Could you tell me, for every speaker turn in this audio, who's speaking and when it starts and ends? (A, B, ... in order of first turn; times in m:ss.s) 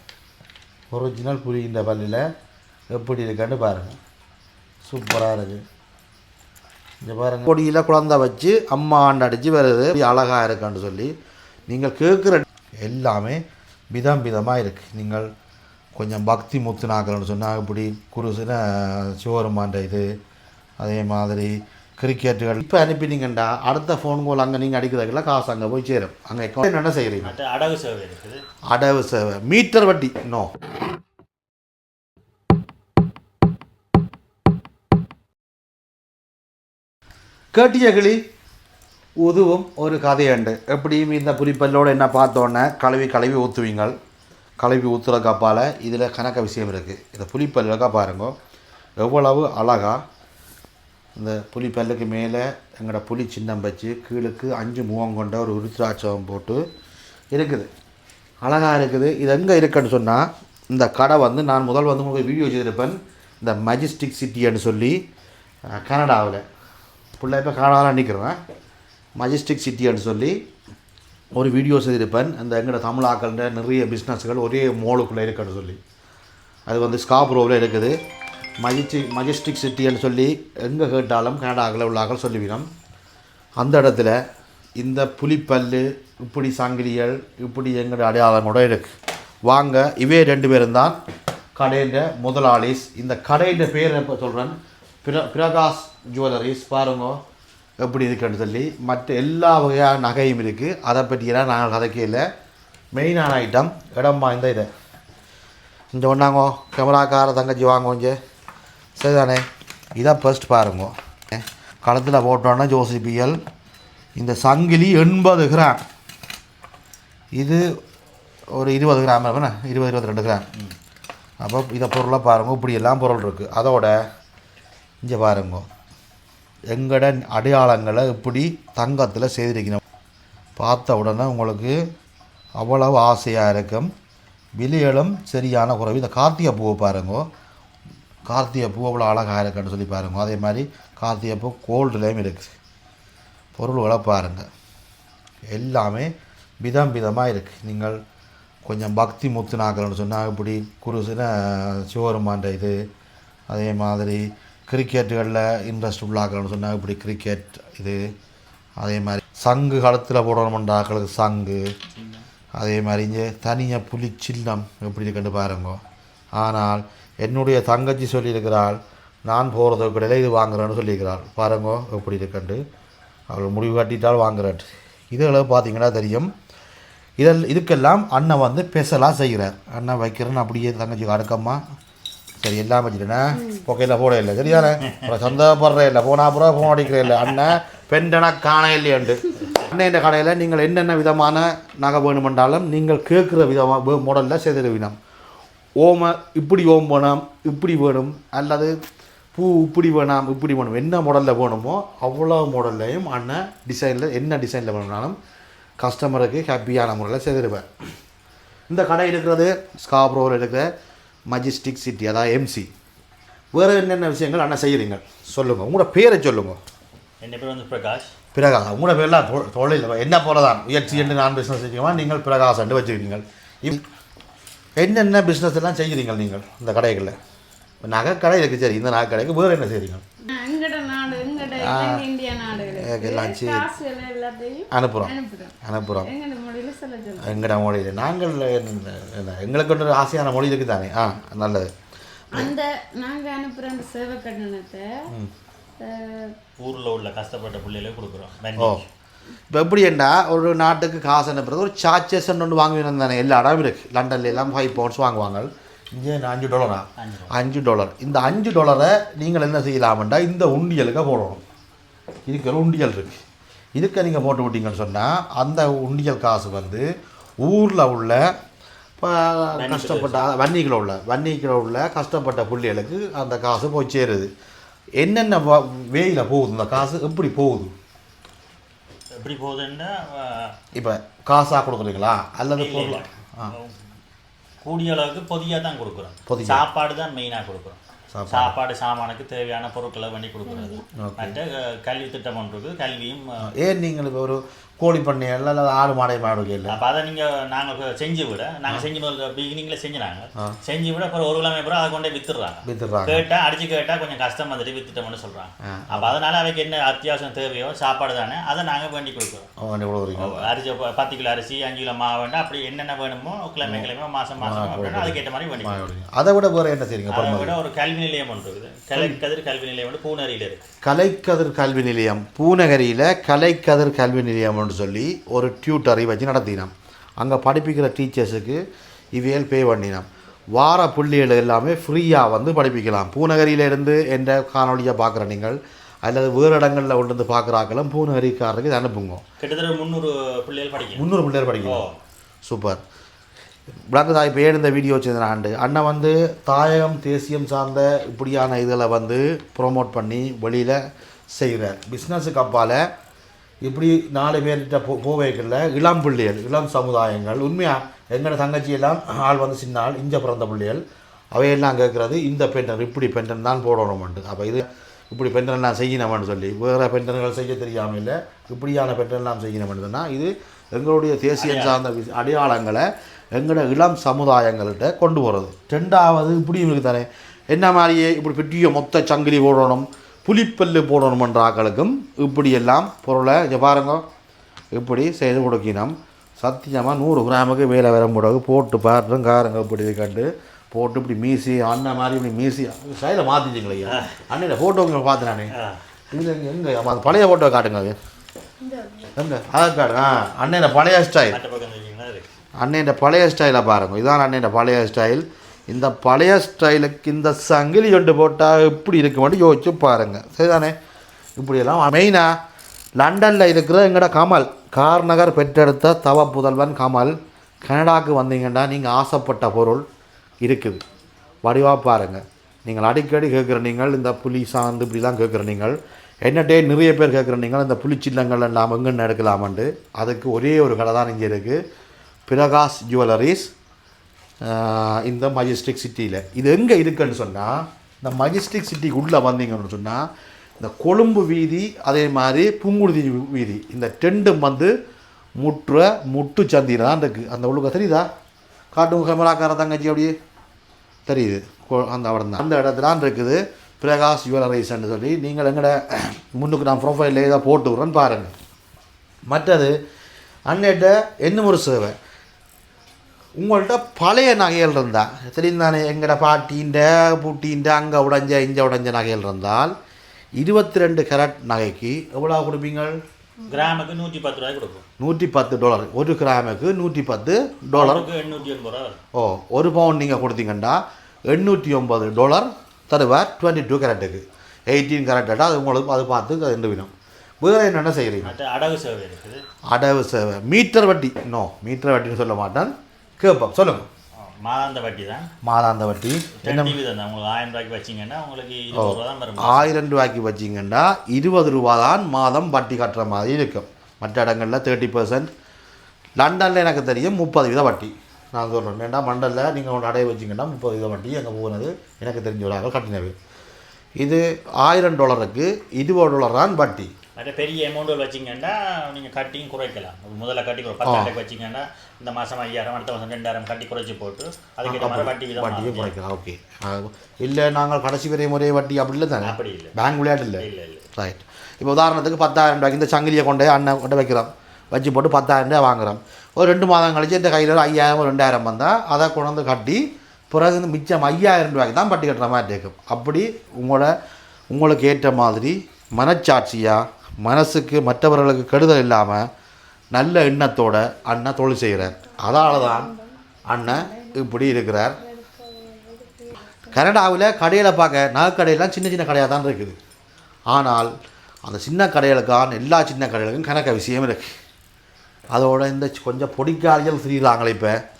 0:00.9-0:02.3 A
0:02.9-0:04.0 A
0:04.8-0:05.6 A
0:07.0-0:11.1 A
0:11.7-0:15.3 A
0:16.0-0:20.1 A
0:20.8-0:27.4 A
0:27.2-0:28.4 B
0:28.7-0:30.5 A
0:37.5-0:38.2 A
0:39.2-0:44.0 A
0:44.6-0:48.4 A
0:49.0-0:50.0 A
0:51.2-0:56.6 A
0:57.3-0:57.7 A
0:58.4-1:05.0 A
1:05.7-1:06.4 A
1:07.2-1:08.4 A
1:09.2-1:10.4 A
1:11.4-1:15.8 A
1:16.7-1:18.0 A
1:18.6-1:22.7 A
1:23.6-1:24.2 A
1:24.8-1:28.9 A
1:29.4-1:31.0 A
1:31.6-1:37.2 A
1:37.8-1:42.3 A
1:42.9-1:44.7 A
1:45.9-1:48.2 A
1:49.0-1:53.4 A
1:54.2-1:55.8 A
1:57.4-1:57.6 A
1:58.5-2:00.5 A
2:01.4-2:04.0 A
2:05.0-2:05.7 A
2:06.7-2:09.8 A
2:10.6-2:11.9 A
2:12.6-2:13.9 A
2:14.6-2:17.3 A
2:18.3-2:22.6 A
2:23.6-2:24.5 A
2:25.5-2:28.0 A
2:28.6-2:32.8 A
2:33.5-2:38.1 A
2:38.8-2:41.7 A
2:41.9-2:42.3 B
2:42.6-2:45.8 A
2:46.4-2:52.6 A
2:53.3-2:56.3 A
2:57.2-3:01.6 A
3:02.4-3:15.0 A
3:15.8-3:18.8 A
3:19.3-3:25.2 A
3:25.8-3:27.7 A
3:28.7-3:30.7 A
3:31.3-3:32.7 A
3:33.5-3:36.6 A
3:37.2-3:38.1 B
3:38.3-3:43.8 A
3:40.9-3:41.2 B
3:44.8-3:47.2 A
3:47.8-3:50.0 A
3:50.3-3:57.5 C
3:51.6-3:52.1 A
3:52.7-3:53.7 A
3:54.7-3:56.1 A
3:57.2-4:01.7 A
4:02.3-4:05.1 C
4:05.8-4:06.4 C
4:06.6-4:08.9 B
4:08.6-4:08.8 A
4:09.5-4:21.4 A
4:17.0-4:17.3 B
4:22.3-4:23.2 A
4:23.8-4:26.8 A
4:27.4-4:28.3 A
4:29.0-4:34.3 A
4:29.6-4:30.3 B
4:35.0-4:37.7 A
4:39.2-4:40.6 B
4:40.8-4:43.5 A
4:42.6-4:43.8 B
4:44.6-4:53.4 B
4:46.3-4:46.6 A
4:48.1-4:48.6 A
4:50.5-4:50.8 C
4:51.0-4:51.4 A
4:53.5-4:56.8 A
4:56.7-5:09.5 B
5:02.6-5:03.2 A
5:05.6-5:06.2 A
5:09.6-5:10.5 A
5:10.2-5:15.9 B
5:13.6-5:17.6 A
5:17.1-5:20.6 B
5:18.9-5:19.2 A
5:20.8-5:28.6 A
5:29.2-5:39.2 A
5:39.4-5:41.1 B
5:40.9-5:41.8 A
5:41.6-5:42.0 B
5:42.4-5:42.8 A
5:43.9-5:52.9 A
5:53.6-6:00.8 A
6:01.3-6:24.0 A
6:11.4-6:11.8 B
6:24.7-6:35.5 A
6:33.9-6:34.2 B
6:35.5-6:35.8 B
6:36.1-6:38.0 A
6:38.6-6:39.1 C
6:39.2-6:41.4 A
6:41.2-6:42.3 B
6:42.6-6:50.8 A
6:51.4-6:52.4 A
6:53.0-6:59.8 A
7:00.4-7:00.8 A
7:01.4-7:11.6 A
7:12.3-7:13.5 A
7:14.4-7:20.1 A
7:20.6-7:24.7 A
7:25.4-7:28.1 A
7:28.7-7:30.1 A
7:31.1-7:38.3 A
7:39.3-7:39.8 A
7:40.5-7:42.0 A
7:43.4-7:49.7 A
7:50.4-7:53.0 A
7:53.5-7:54.8 B
7:55.0-7:58.1 A
7:57.7-7:59.0 B
7:59.2-8:08.3 A
8:08.2-8:09.4 B
8:09.7-8:13.9 A
8:14.2-8:15.3 B
8:15.4-8:16.8 A
8:16.4-8:19.8 B
8:18.7-8:25.3 A
8:26.2-8:33.2 A
8:34.0-8:36.9 A
8:37.2-8:46.0 B
8:40.8-8:41.1 A
8:44.6-9:03.9 A
8:49.2-8:49.8 B
8:50.4-8:50.9 B
9:04.5-9:09.3 A
9:09.9-9:12.9 A
9:12.0-9:16.8 C
9:13.5-9:15.0 A
9:16.7-9:19.8 A
9:20.5-9:20.9 A
9:21.4-9:24.3 A
9:25.3-9:27.8 A